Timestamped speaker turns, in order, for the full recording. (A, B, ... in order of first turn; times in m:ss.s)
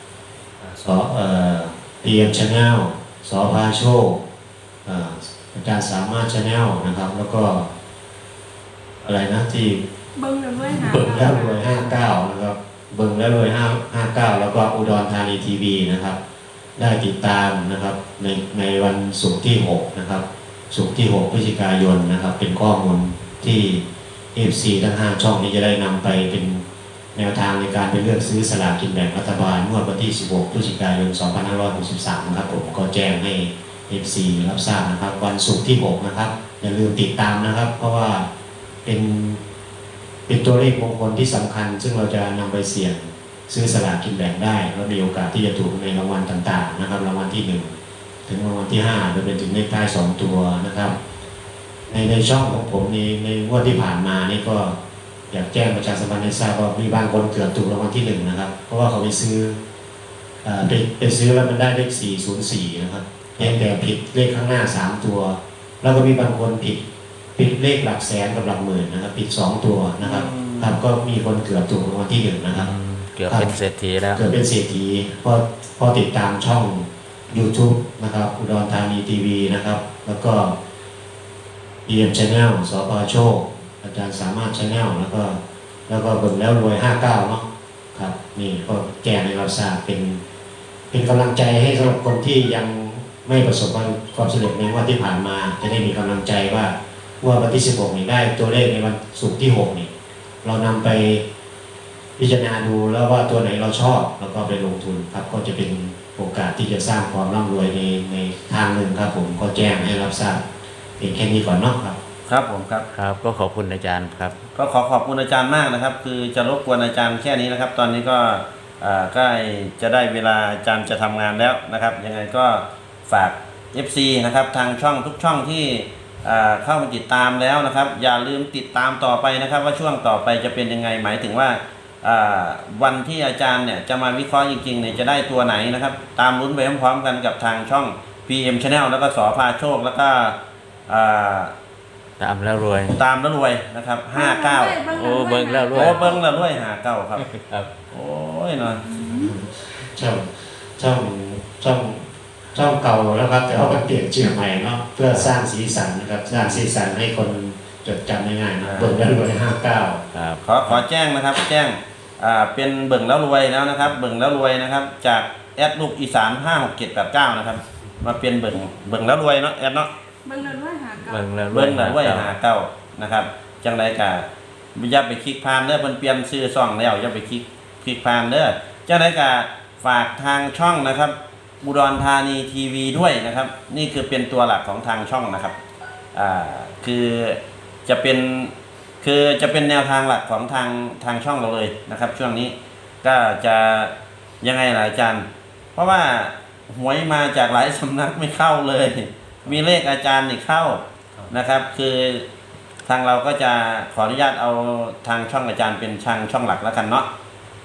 0:00.6-0:04.2 A
0:04.8-0:07.7 A
0:09.0-0:09.8 A
0:10.2-0:11.6 B
0:10.8-0:11.1 C
0:10.9-0:16.2 A
0:16.8-0:38.3 A
0:38.8-0:39.4 A
0:40.3-0:51.0 A
0:51.9-0:54.8 A
0:55.3-0:59.6 A
1:00.4-1:06.8 A
1:07.4-1:12.7 A
1:10.0-1:10.8 D
1:12.5-1:14.2 C
1:13.2-1:13.6 A
1:14.1-1:20.5 A
1:21.8-1:30.2 A
1:30.9-1:39.9 A
1:40.4-1:41.2 A
1:42.2-1:50.4 A
1:51.0-1:52.0 A
1:52.2-1:52.8 D
1:52.9-1:54.4 C
1:54.5-2:21.5 D
2:22.2-2:23.0 C
2:22.9-2:24.9 D
2:24.1-2:26.3 B
2:24.9-2:26.0 C
2:25.7-2:27.3 D
2:27.2-2:27.7 C
2:27.9-2:28.8 D
2:28.7-2:29.3 B
2:29.0-2:40.0 A
2:38.6-2:39.0 D
2:40.1-2:40.4 C
2:40.4-2:49.9 D
2:50.2-2:51.2 B
2:51.0-2:52.3 C
2:51.5-3:05.6 D
3:06.1-3:22.3 D
3:22.8-3:27.1 D